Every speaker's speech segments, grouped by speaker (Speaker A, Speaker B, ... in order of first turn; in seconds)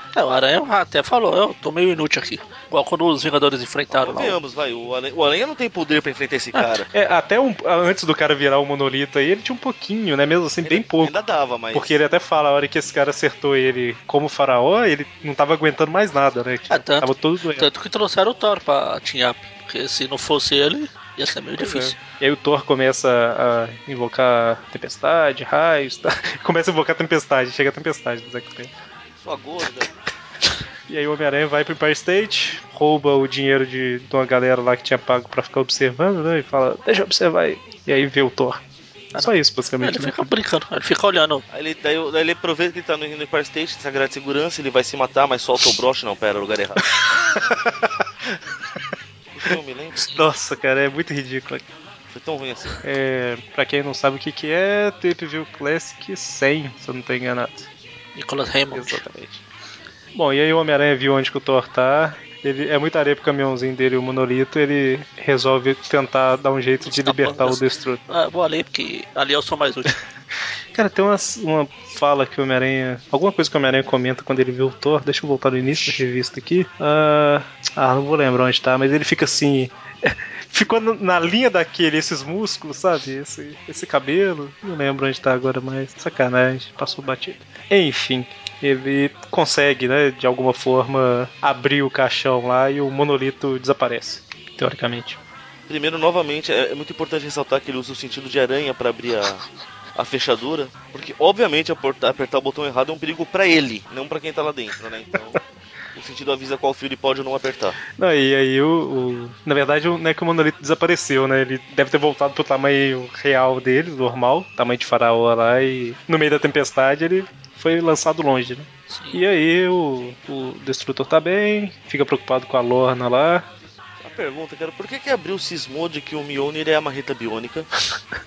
Speaker A: 0.1-4.4, 16.7-21.9, 39.1-41.4, 58.1-59.0, 66.8-70.0, 118.9-119.2
Speaker B: 3.9-6.9, 10.6-12.0, 29.2-29.9, 41.5-46.9, 49.3-50.1, 52.1-52.8, 95.7-105.4, 106.0-107.8, 124.0-127.7
Speaker C: 6.9-11.1, 11.7-17.7, 21.6-28.7, 30.9-38.6, 39.2-40.2, 47.0-48.4, 50.1-51.6, 52.8-57.7, 58.7-59.4, 60.1-68.0, 70.7-95.2, 108.0-123.5